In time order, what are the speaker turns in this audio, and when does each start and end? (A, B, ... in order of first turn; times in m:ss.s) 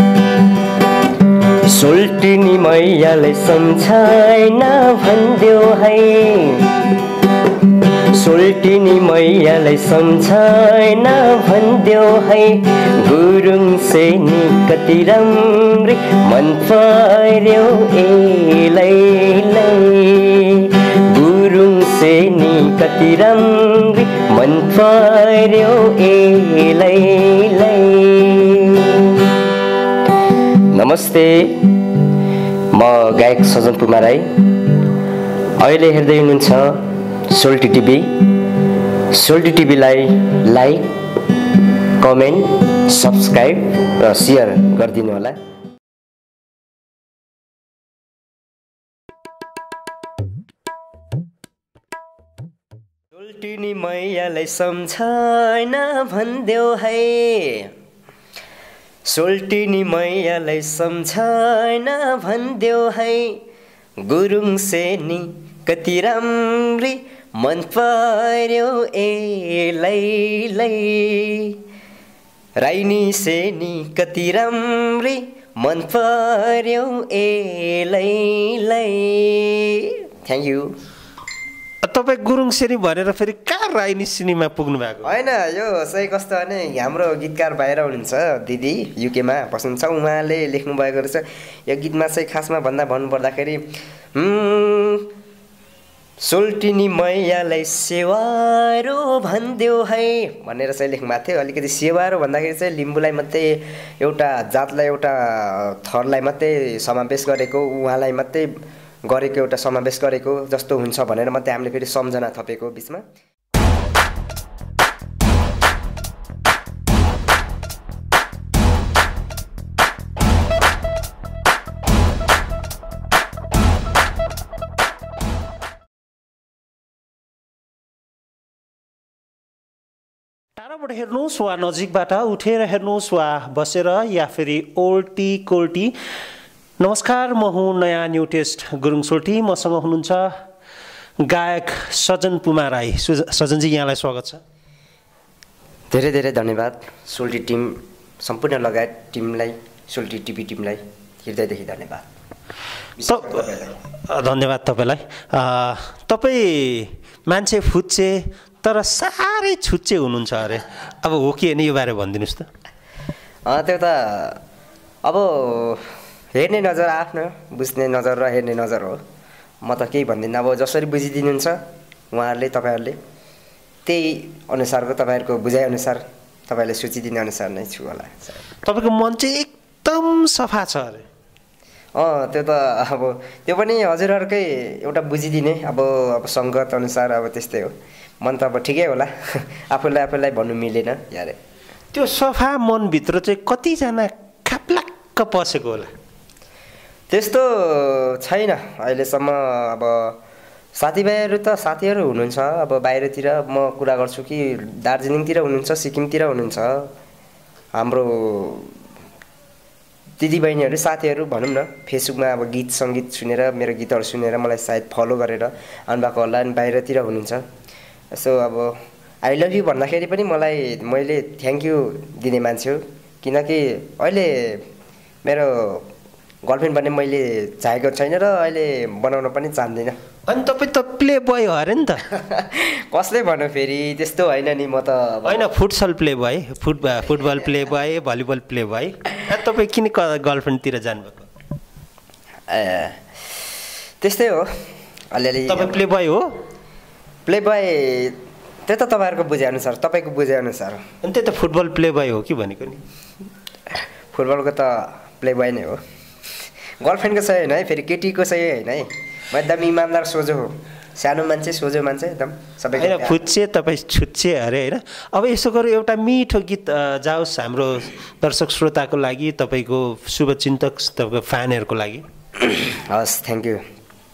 0:01.7-0:06.8 A
0:08.1-0:29.2 A
0:30.7-0:31.9 A
0:32.7-0:34.4 A
0:35.6-0:38.4 A
0:39.1-0:41.0 A
0:42.0-0:45.4 A
0:53.1-0:57.7 A
0:59.1-1:03.4 A
1:04.0-1:11.6 A
1:12.6-1:20.7 A
1:21.8-1:25.1 B
1:25.0-1:33.6 A
1:34.2-1:35.1 A
1:36.2-1:48.5 A
1:49.1-1:53.1 A
2:10.6-2:15.9 B
2:16.8-2:20.3 B
2:21.2-2:24.4 B
2:25.9-2:32.1 A
2:33.0-2:33.8 A
2:33.1-2:33.5 B
2:34.1-2:42.5 B
2:43.5-2:44.4 A
2:45.0-2:49.0 A
2:49.6-2:51.6 A
2:52.1-2:53.0 A
2:53.9-2:58.4 A
2:58.6-3:01.0 B
3:02.0-3:11.4 A
3:11.9-3:15.9 B
3:17.1-3:20.2 A
3:20.8-3:26.9 A
3:27.8-3:28.7 A
3:30.2-3:37.4 A
3:38.1-3:38.7 A
3:39.2-3:44.6 A
3:45.2-3:45.8 A
3:46.4-3:50.0 A
3:50.3-3:52.0 B
3:52.1-3:55.5 A
3:55.3-4:01.3 B
4:02.5-4:03.0 A
4:04.0-4:04.5 A
4:05.1-4:05.8 A
4:05.5-4:06.3 B
4:07.3-4:10.8 A
4:11.0-4:12.8 B
4:14.1-4:15.8 A
4:16.8-4:23.3 A
4:22.8-4:32.0 B
4:32.4-4:33.6 A